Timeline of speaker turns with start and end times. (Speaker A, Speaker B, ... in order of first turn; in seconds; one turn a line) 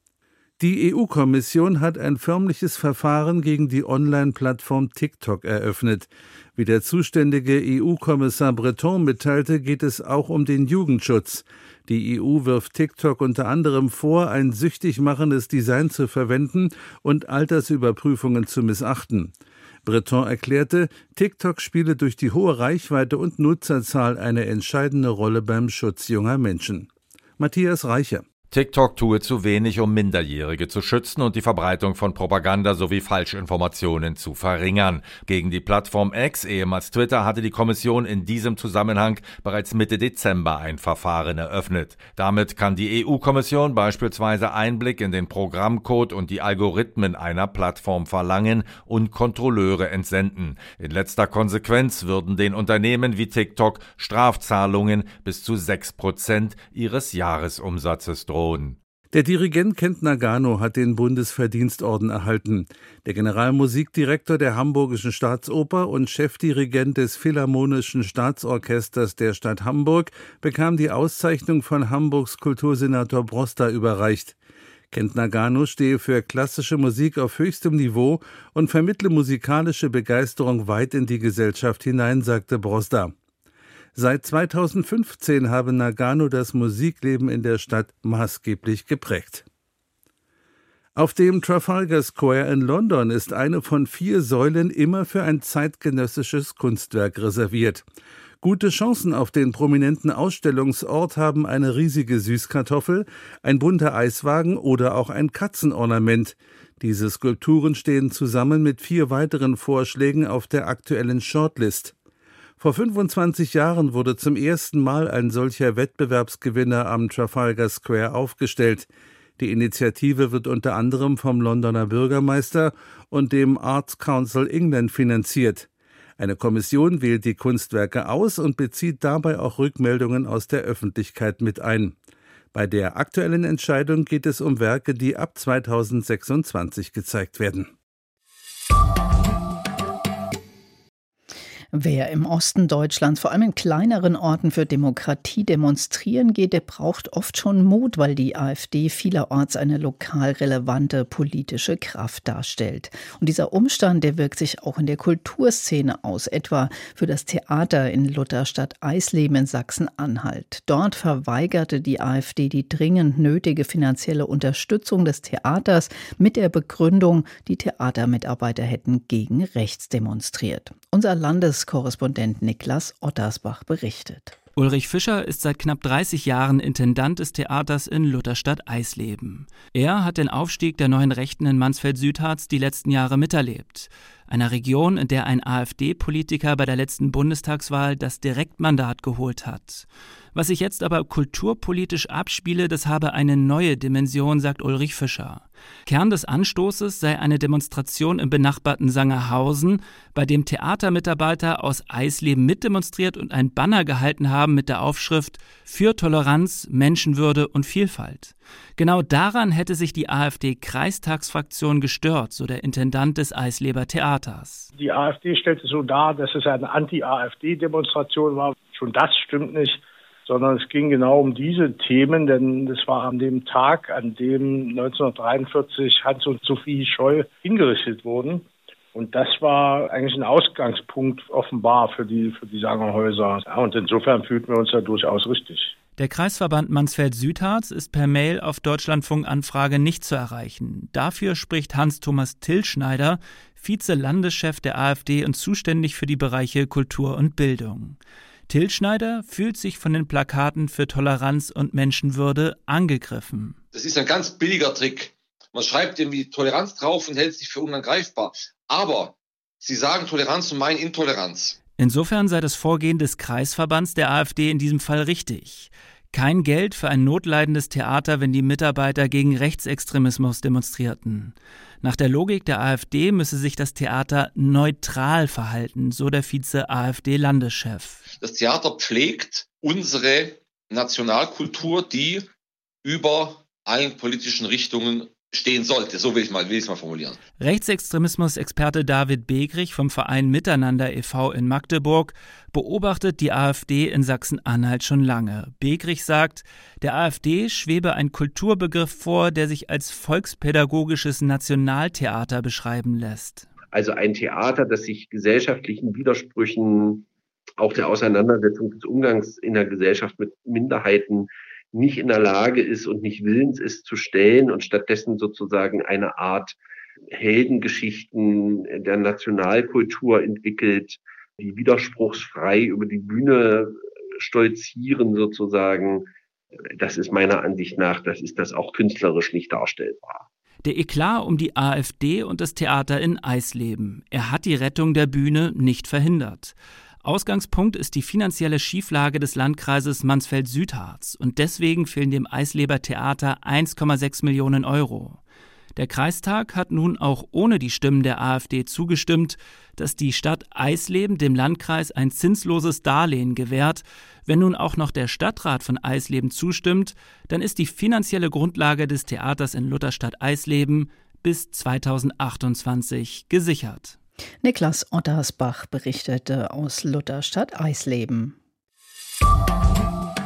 Speaker A: 0.6-19.3
Speaker A: 19.8-28.3
Speaker B: 28.5-58.8
Speaker A: 59.1-74.3
Speaker A: 74.9-83.1
Speaker A: 83.9-89.4
Speaker A: 91.0-97.8
Speaker A: 98.4-111.9
Speaker A: 112.6-131.9
Speaker A: 132.5-137.7
Speaker C: 141.7-174.3
Speaker D: 174.6-214.7
Speaker E: 214.8-235.7
Speaker D: 236.0-253.6
Speaker F: 253.7-261.6
Speaker D: 261.8-278.0
Speaker F: 278.2-282.3
Speaker F: 282.8-287.2
Speaker D: 287.4-303.5
Speaker G: 303.7-307.1
Speaker G: 307.6-316.6
Speaker G: 317.1-326.1
Speaker G: 326.8-330.2
Speaker D: 330.6-345.2
Speaker D: 345.8-364.0
Speaker C: 364.4-368.4